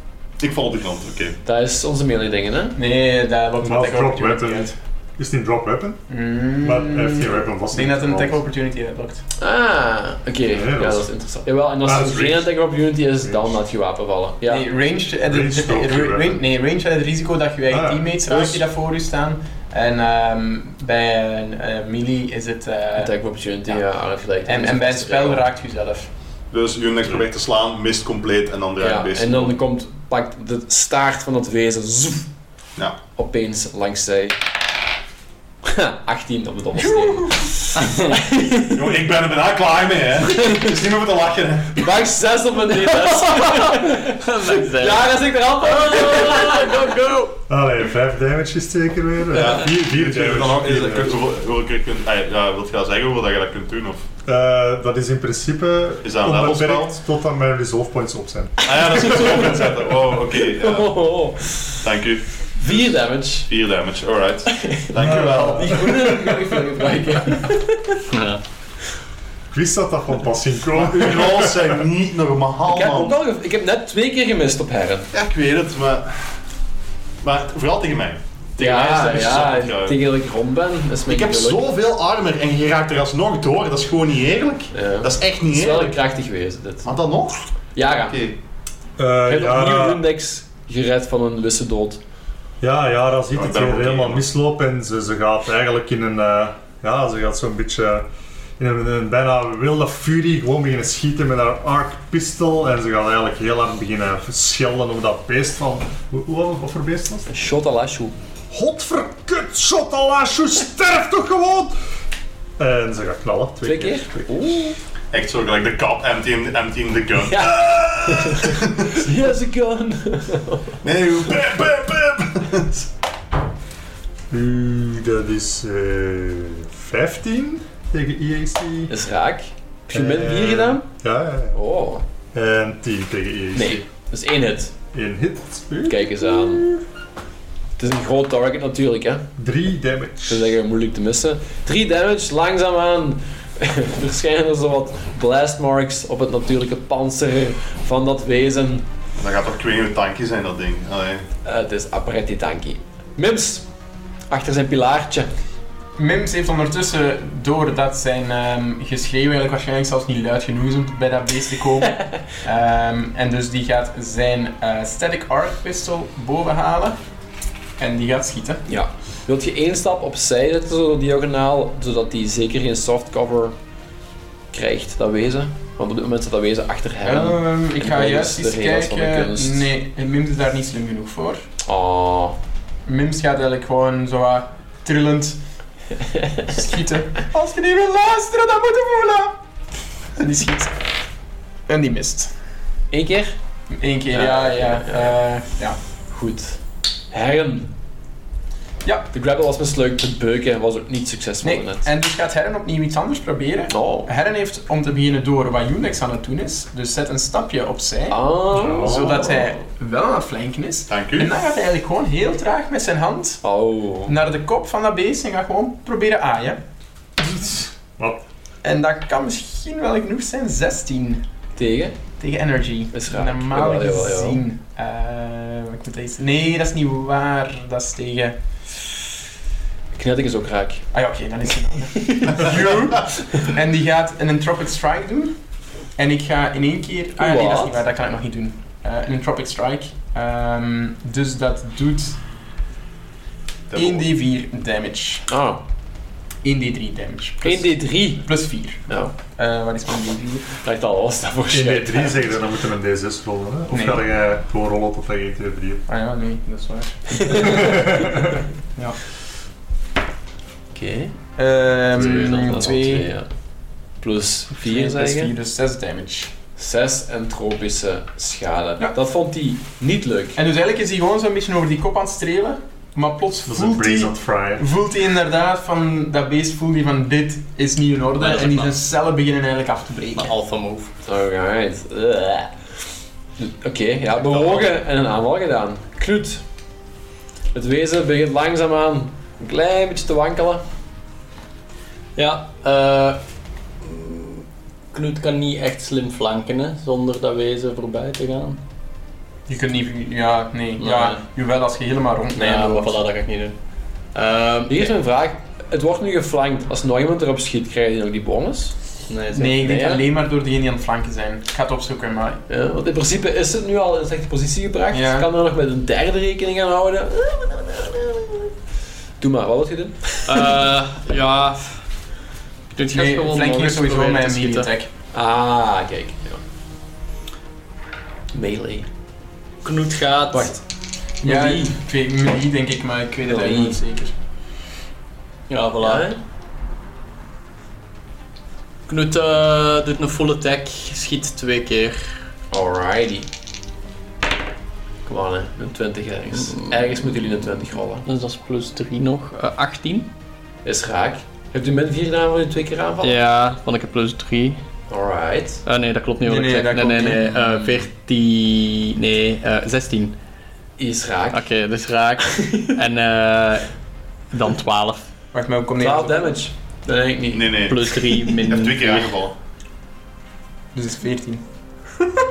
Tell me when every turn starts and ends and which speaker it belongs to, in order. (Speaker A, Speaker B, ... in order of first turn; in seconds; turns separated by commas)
Speaker A: 0.4-1.4, Speaker B: 1.4-2.8, Speaker C: 2.7-4.7, Speaker D: 3.6-6.0, Speaker C: 6.1-9.2, Speaker D: 6.6-8.4, Speaker B: 9.4-14.7, Speaker D: 10.5-11.1, Speaker D: 11.8-12.5, Speaker D: 13.2-13.5, Speaker C: 14.5-23.1, Speaker D: 15.3-16.4, Speaker D: 17.7-18.6, Speaker B: 23.0-25.5, Speaker C: 24.4-26.1, Speaker A: 26.5-29.5, Speaker B: 28.8-32.3, Speaker B: 33.1-34.4, Speaker B: 35.6-38.8, Speaker C: 36.8-37.6, Speaker A: 38.6-41.8, Speaker B: 41.8-47.0, Speaker E: 43.4-45.1, Speaker C: 45.8-47.3, Speaker E: 45.9-46.7, Speaker D: 47.5-51.1, Speaker A: 49.3-54.0, Speaker D: 54.2-58.7, Speaker A: 56.0-56.9, Speaker A: 58.6-61.0, Speaker B: 60.5-61.8, Speaker A: 61.8-62.2, Speaker B: 62.6-63.5, Speaker A: 63.5-66.0, Speaker B: 64.6-68.0, Speaker D: 65.0-66.3, Speaker E: 68.1-68.4, Speaker D: 69.5-71.8, Speaker A: 70.7-73.2, Speaker B: 72.7-75.1, Speaker A: 75.1-76.4, Speaker A: 77.2-80.0, Speaker B: 78.6-81.6, Speaker A: 81.1-86.0, Speaker B: 84.7-86.9, Speaker A: 86.8-87.5, Speaker B: 87.7-88.2, Speaker A: 88.0-88.4, Speaker D: 89.0-90.0, Speaker B: 89.2-92.0, Speaker D: 92.6-98.1, Speaker A: 93.3-94.2, Speaker D: 98.6-107.3, Speaker B: 107.3-108.1, Speaker D: 108.5-111.8, Speaker D: 112.6-114.1, Speaker B: 113.6-114.8, Speaker A: 115.1-117.6, Speaker B: 117.2-120.8, Speaker D: 117.6-118.5, Speaker A: 118.5-119.0, Speaker A: 120.8-122.8, Speaker D: 121.3-122.3, Speaker D: 124.3-128.9, Speaker B: 128.9-130.8, Speaker D: 129.9-131.6, Speaker B: 131.5-132.0, Speaker D: 132.3-133.8, Speaker B: 133.5-134.7, Speaker D: 134.9-136.8, Speaker B: 135.9-136.7, Speaker B: 137.8-139.3, Speaker D: 139.4-140.5, Speaker B: 140.3-148.9, Speaker A: 149.2-151.2, Speaker B: 151.4-153.7, Speaker B: 154.3-155.3, Speaker C: 156.0-167.0, Speaker C: 167.8-168.6, Speaker B: 168.7-173.5, Speaker B: 174.5-179.7, Speaker C: 177.0-181.4, Speaker B: 181.6-182.3, Speaker C: 182.8-185.4, Speaker B: 186.0-186.6, Speaker C: 186.5-189.3, Speaker C: 190.2-190.7, Speaker C: 191.7-192.3, Speaker B: 192.9-193.3, Speaker C: 193.8-195.8, Speaker B: 194.1-195.2, Speaker B: 196.1-197.7, Speaker B: 199.1-201.9, Speaker C: 201.4-213.4, Speaker B: 203.7-204.1, Speaker B: 208.1-209.5, Speaker D: 208.5-209.3, Speaker A: 210.9-211.3, Speaker B: 213.4-214.1, Speaker C: 214.1-216.6, Speaker D: 217.2-218.2, Speaker C: 218.6-221.2, Speaker B: 221.6-222.0, Speaker C: 222.2-228.3, Speaker B: 222.9-224.4, Speaker B: 229.9-230.8, Speaker C: 230.9-235.4, Speaker B: 232.0-232.5, Speaker C: 235.9-242.2, Speaker B: 237.2-237.8, Speaker A: 243.7-244.1, Speaker C: 243.8-245.2, Speaker B: 245.3-245.6, Speaker C: 246.4-250.4, Speaker B: 247.4-248.3, Speaker B: 248.9-249.1, Speaker B: 250.5-252.3, Speaker D: 251.5-255.8, Speaker C: 253.7-254.0, Speaker C: 255.9-258.2, Speaker B: 257.1-257.9, Speaker D: 257.6-258.2, Speaker B: 260.7-261.2, Speaker C: 261.4-263.1, Speaker B: 262.0-263.3, Speaker E: 262.0-262.4, Speaker B: 264.0-265.3, Speaker C: 264.5-266.3, Speaker B: 266.6-270.4, Speaker C: 270.4-280.3, Speaker D: 273.4-274.7, Speaker E: 278.2-278.7, Speaker E: 280.1-280.9, Speaker B: 281.0-286.4, Speaker E: 284.2-284.7, Speaker B: 287.5-290.6, Speaker E: 292.1-293.2, Speaker E: 293.8-298.6, Speaker C: 299.5-303.0, Speaker E: 300.8-301.2, Speaker E: 302.3-303.6, Speaker E: 304.1-304.9, Speaker B: 304.7-308.7, Speaker E: 309.1-309.6, Speaker C: 309.3-312.4, Speaker B: 309.5-310.0, Speaker B: 312.5-318.5, Speaker C: 314.9-315.3, Speaker B: 319.2-320.5, Speaker E: 320.2-321.9, Speaker E: 322.8-324.7, Speaker C: 322.9-324.9, Speaker B: 325.1-326.4, Speaker B: 328.3-328.9, Speaker E: 329.6-330.6, Speaker B: 330.3-330.6, Speaker C: 331.2-334.1, Speaker B: 331.2-331.7, Speaker E: 331.3-331.6, Speaker B: 333.2-333.8, Speaker E: 335.5-336.1, Speaker B: 335.8-336.2, Speaker E: 338.9-342.3, Speaker B: 342.5-343.3, Speaker B: 345.1-348.1, Speaker E: 348.0-350.1, Speaker B: 350.6-353.2, Speaker E: 353.0-354.6, Speaker B: 354.9-355.6, Speaker E: 355.6-360.1, Speaker C: 356.2-357.2, Speaker B: 357.4-357.8, Speaker B: 360.8-361.4, Speaker E: 361.3-363.7, Speaker B: 362.3-362.7, Speaker E: 364.3-365.0, Speaker C: 365.3-366.4, Speaker B: 365.8-367.7, Speaker A: 367.3-369.3, Speaker E: 367.7-369.1, Speaker C: 370.7-371.4